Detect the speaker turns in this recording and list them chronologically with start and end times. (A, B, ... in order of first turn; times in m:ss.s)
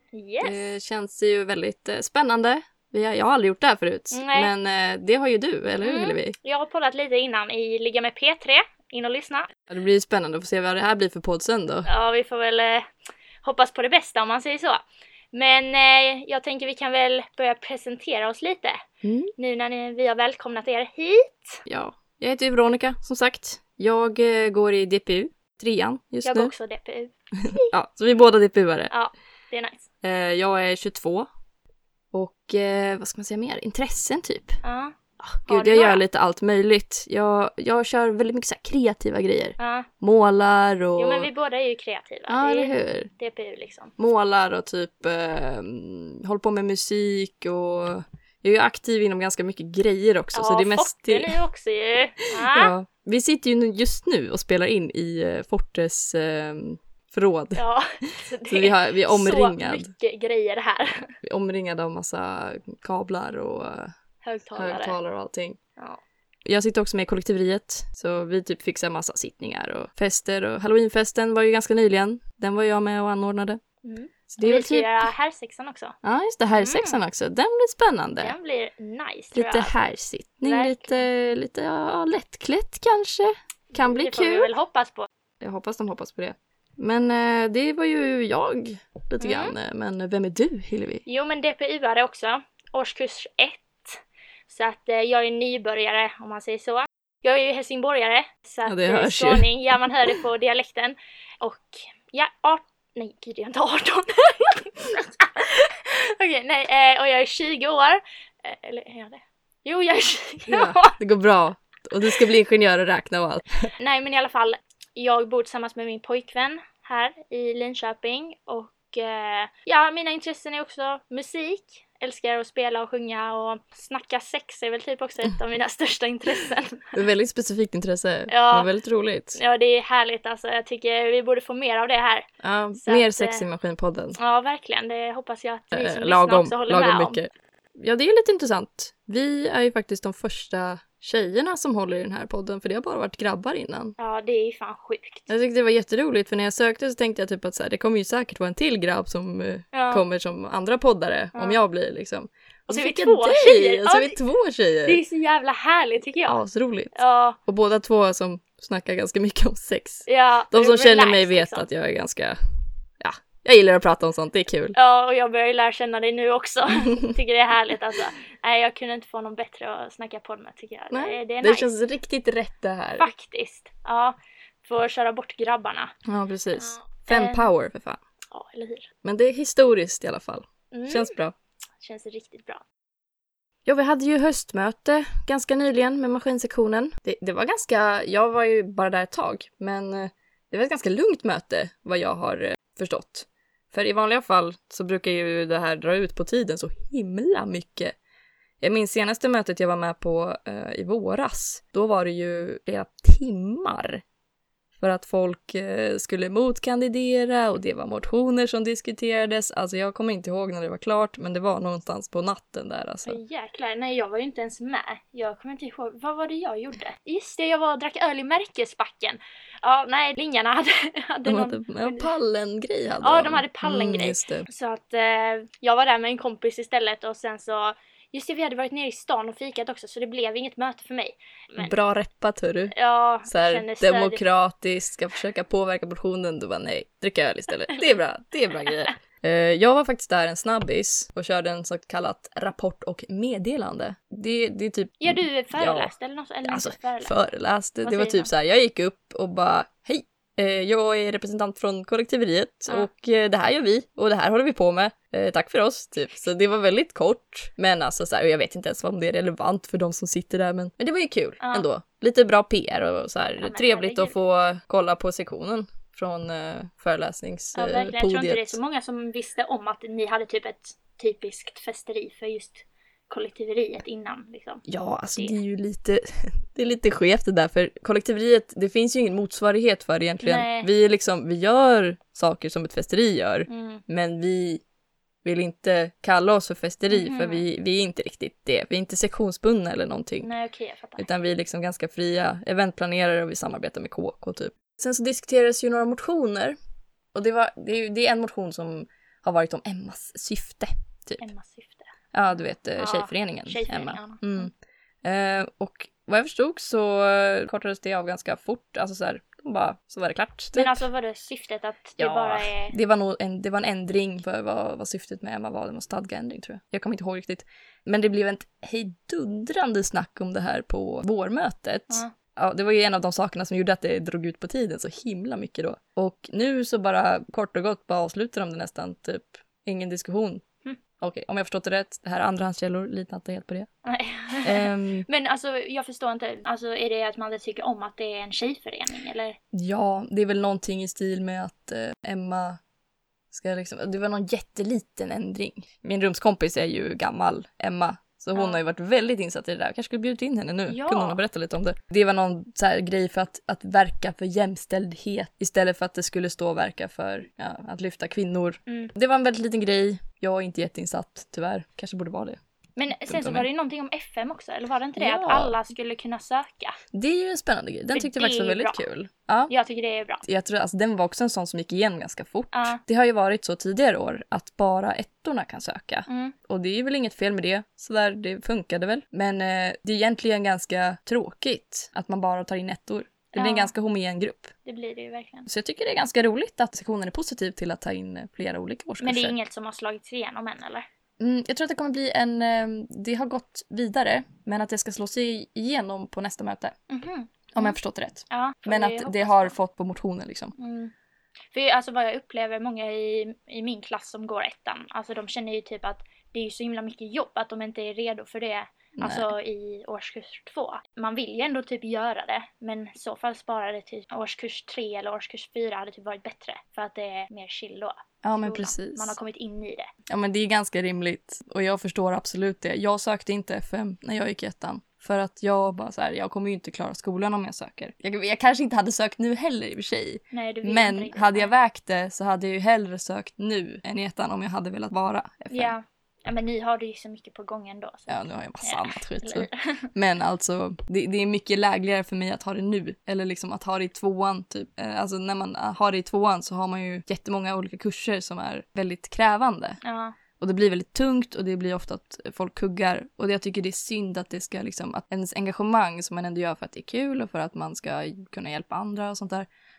0:00.1-0:00.6 A
0:00.4-0:06.3 B
0:04.1-0:04.5 A
0:05.8-0:09.5 A
0:09.7-0:11.9 B
0:11.8-0:12.8 A
0:13.4-0:14.8 A
0:15.3-0:18.8 A
0:19.0-0:19.3 B
0:19.4-0:21.6 A
0:21.6-0:26.5 B
0:26.2-0:27.7 A
0:27.4-0:28.9 B
0:28.9-0:29.8 A
0:30.0-0:31.3 B
0:32.1-0:34.6 B
0:34.6-0:36.0 A
0:35.2-0:41.3 B
0:39.6-0:39.9 A
0:41.0-0:43.9 A
0:42.3-0:43.1 B
0:44.0-0:51.4 B
0:50.3-0:52.7 A
0:52.4-0:59.9 B
0:57.6-1:01.1 A
1:01.2-1:03.9 B
1:04.2-1:05.0 A
1:04.6-1:05.6 B
1:06.4-1:13.6 B
1:13.8-1:15.9 A
1:14.3-1:15.1 B
1:16.0-1:18.3 B
1:16.5-1:17.0 A
1:18.2-1:19.7 A
1:19.3-1:24.5 B
1:20.4-1:21.0 A
1:23.7-1:25.1 A
1:25.4-1:31.0 B
1:29.2-1:29.5 A
1:31.0-1:50.9 A
1:38.6-1:40.2 B
1:50.5-1:53.7 B
1:53.8-2:06.9 A
2:06.9-2:09.4 B
2:08.3-2:08.7 A
2:09.3-2:13.4 A
2:12.4-2:14.2 B
2:14.2-2:17.2 A
2:15.7-2:24.0 B
2:24.0-2:25.3 A
2:25.3-2:35.0 B
2:29.7-2:30.0 A
2:31.3-2:31.6 A
2:32.7-2:34.2 A
2:34.8-2:36.4 A
2:36.2-2:42.4 B
2:36.9-2:37.4 A
2:40.1-2:41.7 A
2:43.0-2:44.7 B
2:44.7-2:51.7 A
2:50.9-2:53.1 B
2:53.0-2:55.9 A
2:56.0-2:58.0 B
2:56.6-2:57.5 A
2:58.3-2:58.9 A
2:59.0-3:01.3 B
3:00.7-3:01.1 A
3:01.8-3:02.6 A
3:03.6-3:18.0 B
3:18.6-3:24.0 B
3:24.8-3:33.2 B
3:33.0-3:42.1 A
3:41.2-3:44.4 B
3:43.0-3:51.7 A
3:51.6-3:52.7 B
3:52.7-3:54.2 A
3:53.2-4:05.9 B
4:05.0-4:07.2 A
4:06.4-4:28.6 B
4:07.8-4:08.3 A
4:21.4-4:21.7 A
4:23.4-4:24.1 A
4:27.5-4:34.6 A
4:34.6-4:44.6 B
4:40.2-4:40.7 A
4:43.5-4:43.8 A
4:45.2-4:50.3 B
4:46.9-4:47.4 A
4:50.2-4:51.0 A
4:51.0-4:56.6 B
4:57.1-5:01.2 B
5:01.2-5:01.9 A
5:02.1-5:04.5 B
5:02.8-5:04.5 A
5:05.0-5:10.8 B
5:10.5-5:12.7 A
5:12.0-5:30.4 B
5:31.0-5:33.7 B
5:33.8-5:39.4 A
5:34.4-5:35.0 B
5:39.5-5:42.6 B
5:43.3-6:02.4 B
5:50.7-5:51.2 A
5:58.7-5:58.9 A
6:02.8-6:06.8 A
6:03.0-6:03.5 B
6:05.0-6:05.6 B
6:06.9-6:09.5 B
6:07.9-6:08.8 A
6:09.5-6:10.2 A
6:10.2-6:24.5 B
6:12.5-6:12.8 A
6:16.1-6:16.3 A
6:23.3-6:23.7 A
6:24.6-6:25.5 A
6:25.4-6:29.3 B
6:29.0-6:30.8 A
6:31.2-6:36.8 B
6:36.9-6:37.8 A
6:37.5-6:40.5 B
6:38.3-6:39.6 A
6:40.6-6:40.9 A
6:41.5-6:59.9 A
6:49.0-6:49.3 B
6:58.2-6:59.2 B
7:00.1-7:15.7 B
7:10.3-7:11.5 A
7:15.5-7:19.9 A
7:18.1-7:29.8 B
7:29.8-7:30.2 A
7:30.4-7:39.5 B